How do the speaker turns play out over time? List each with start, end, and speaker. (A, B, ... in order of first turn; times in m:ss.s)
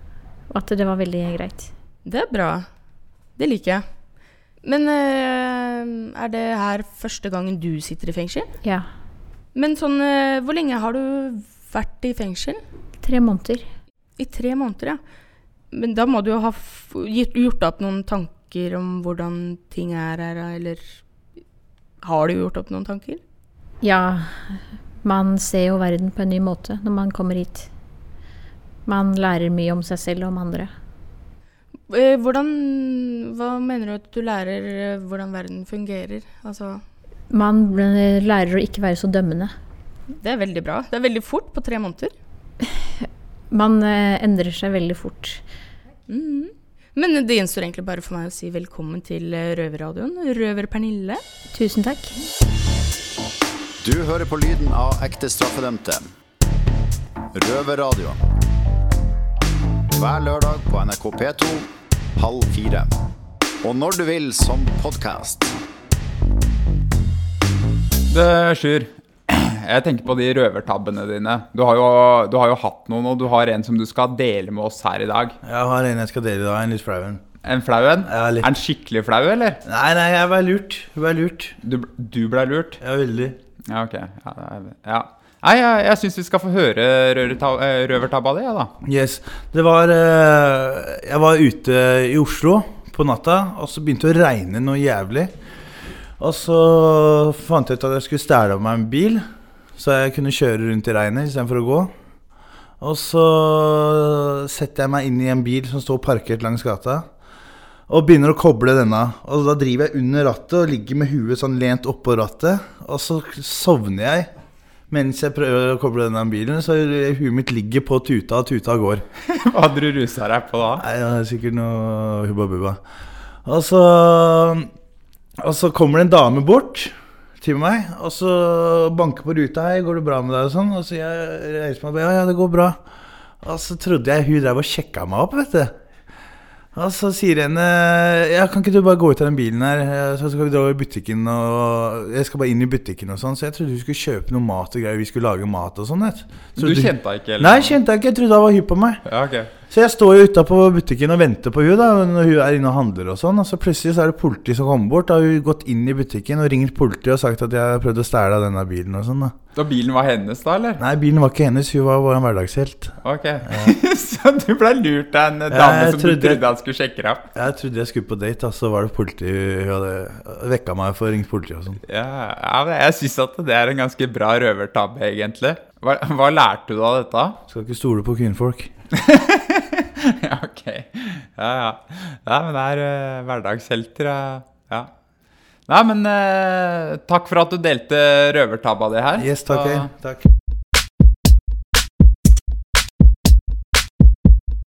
0:00.5-0:01.7 A
0:02.0-0:02.7 B
0:03.4-0:03.8 B
0:04.6-0:08.5 B
0:08.6-0:08.9 A
0:09.5-0:12.6 B
0:13.0-0:13.7 A
0:14.2-0:15.0 B
0:15.7-0:20.8 B
0:22.0-0:23.2 B
0:23.8-0:27.7 A
0:28.8-0:30.7 A
0:31.9-0:36.8 B
0:37.3-0:39.5 A
0:40.2-0:42.1 B
0:43.0-0:45.4 A
0:46.1-0:51.2 B
0:51.5-0:52.2 A
0:53.8-0:56.1 C
0:57.3-0:58.2 C
0:59.9-1:02.9 C
1:03.6-1:05.5 C
1:08.1-1:15.4 D
1:15.4-1:17.2 E
1:17.4-1:19.6 D
1:18.0-1:18.5 E
1:19.6-1:21.5 E
1:21.6-1:22.8 D
1:22.8-1:23.4 E
1:23.7-1:28.7 D
1:28.8-1:35.3 E
1:36.2-1:39.2 E
1:39.8-1:41.9 E
1:42.8-1:47.0 E
1:47.9-1:54.3 E
1:54.9-1:59.0 E
1:59.3-2:00.8 D
2:00.8-2:02.8 E
2:03.4-2:04.7 E
2:05.4-2:12.8 E
2:13.4-2:15.8 E
2:16.7-2:29.0 E
2:26.6-2:27.8 D
2:29.0-2:29.5 D
2:29.7-2:39.3 E
2:39.5-2:40.8 D
2:40.8-2:42.9 E
2:43.0-2:47.3 D
2:43.4-2:43.7 E
2:45.5-2:46.4 E
2:47.3-2:51.8 E
2:51.9-2:57.4 D
2:57.5-2:58.7 E
2:58.9-3:04.9 D
3:05.7-3:09.9 D
3:09.2-3:10.2 E